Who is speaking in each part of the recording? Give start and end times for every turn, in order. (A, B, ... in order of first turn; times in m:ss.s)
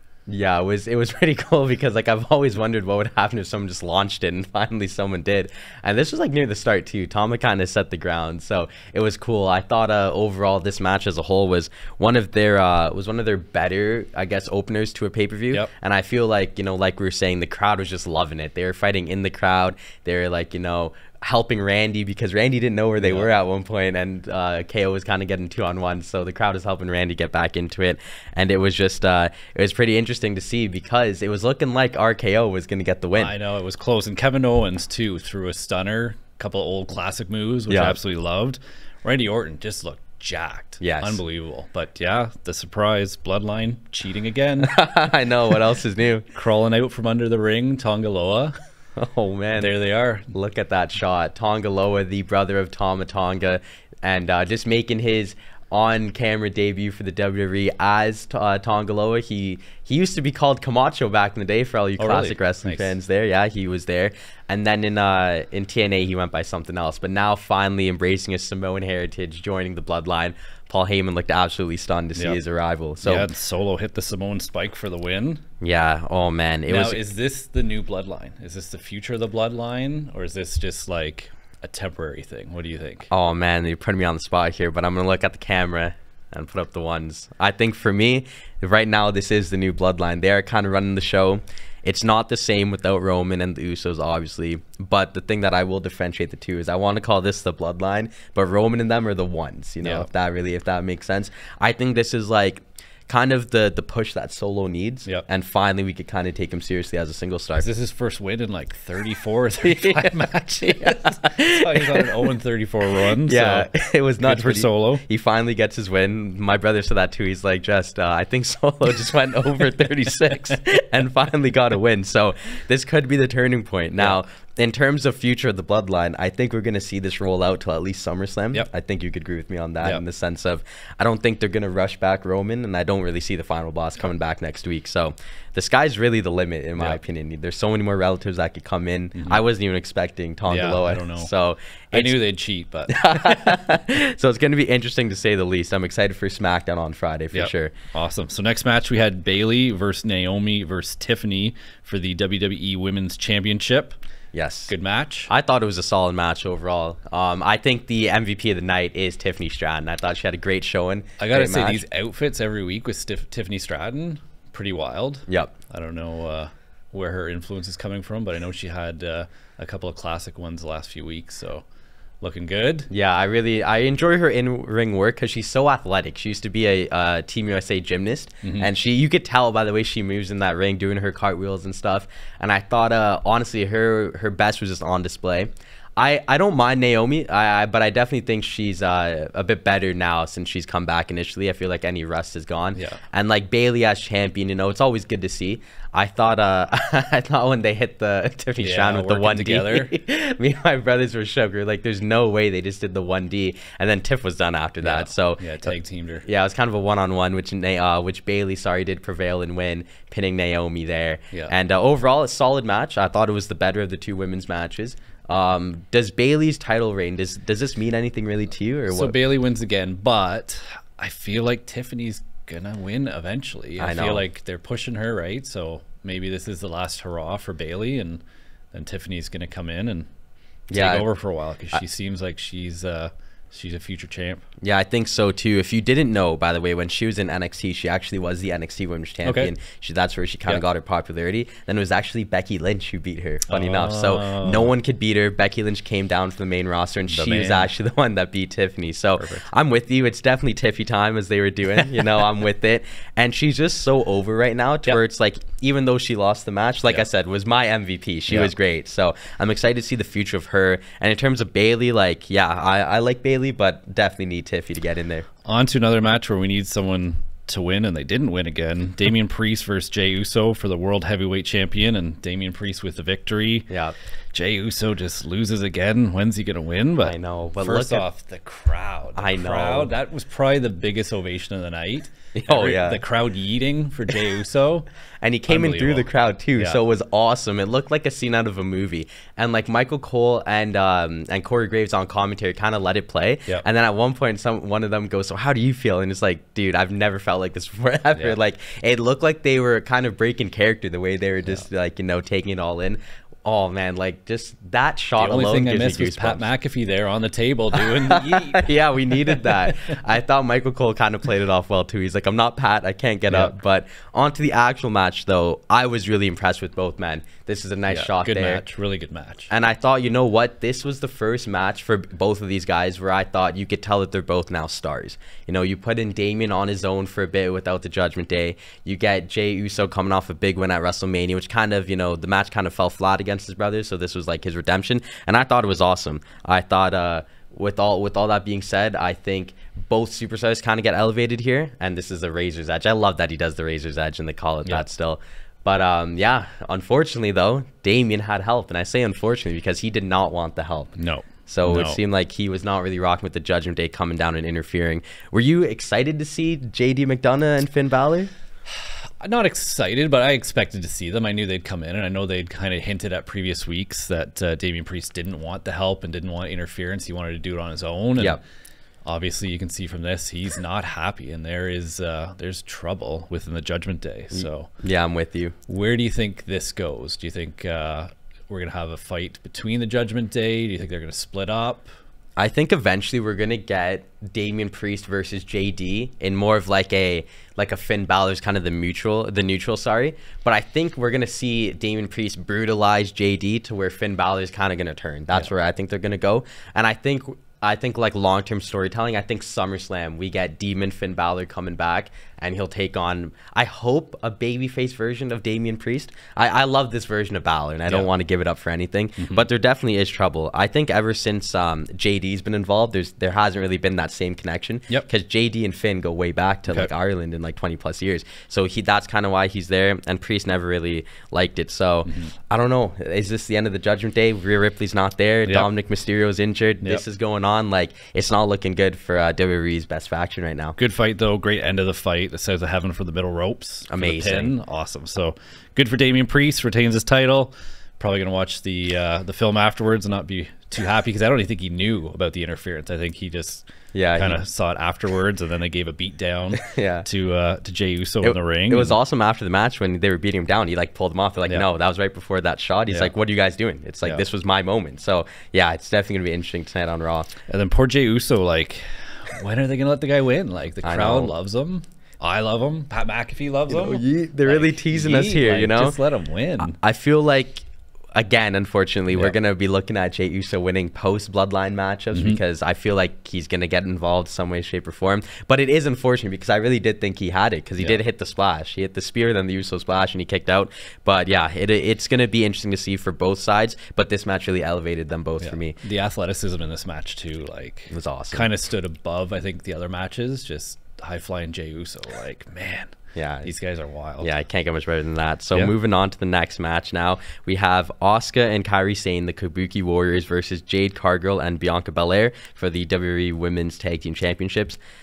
0:00.3-0:33.3 A
0:23.0-0:23.3 B
0:33.2-0:44.8 B
0:37.7-0:38.0 A
0:40.8-0:41.2 A
0:44.6-0:46.3 A
0:46.3-0:48.5 B
0:49.0-0:49.7 A
0:49.6-0:50.3 B
0:50.3-1:13.3 A
1:02.0-1:02.9 B
1:13.0-1:15.4 B
1:15.6-1:17.0 A
1:16.7-1:23.1 B
1:23.1-1:47.7 A
1:39.8-1:40.1 B
1:47.6-1:55.0 B
1:49.6-1:52.3 A
1:53.2-2:22.2 A
2:19.2-2:19.4 B
2:20.5-2:21.3 B
2:21.9-2:23.6 B
2:22.9-2:27.7 A
2:27.3-2:34.0 B
2:34.3-2:34.7 A
2:34.7-2:35.3 B
2:35.3-2:41.8 A
2:41.2-2:51.6 B
2:45.3-2:45.5 A
2:52.2-2:52.9 B
2:52.9-3:39.2 A
2:58.4-2:58.7 B
3:18.6-3:19.9 B
3:24.8-3:26.2 B
3:38.9-3:48.2 B
3:43.8-3:44.2 A
3:48.7-3:50.1 B
3:50.7-3:51.0 A
3:50.7-3:54.4 B
3:54.6-4:25.3 A
3:59.2-3:59.5 B
4:03.5-4:04.7 B
4:07.1-4:07.7 B
4:09.2-4:09.4 B
4:25.4-4:33.7 B
4:33.7-4:34.0 A
4:34.3-4:44.9 B
4:37.0-4:38.1 A
4:39.1-4:39.9 A
4:42.4-4:43.0 A
4:45.2-5:06.5 A
4:45.5-4:46.8 B
5:05.2-5:08.7 B
5:07.8-5:18.6 A
5:09.2-5:10.0 B
5:13.3-5:13.5 B
5:17.9-5:19.5 B
5:19.5-5:50.9 A
5:51.0-5:52.0 B
5:51.5-5:58.3 A
5:58.7-6:08.4 B
6:09.0-6:14.7 B
6:14.3-6:15.5 A
6:15.7-6:21.9 B
6:22.4-7:10.8 A
6:49.2-6:49.4 B
7:02.0-7:02.3 B
7:10.8-7:29.0 B
7:13.9-7:14.5 A
7:23.9-7:24.4 A
7:26.6-7:27.1 A
7:28.2-7:37.3 A
7:37.5-7:46.8 B
7:40.8-7:41.3 A
7:43.7-7:46.0 A
7:46.6-8:05.8 A
7:52.1-7:52.4 B
8:05.4-8:12.9 B
8:07.9-8:08.5 A
8:13.2-8:13.5 A
8:13.4-8:14.3 B
8:14.2-8:24.8 A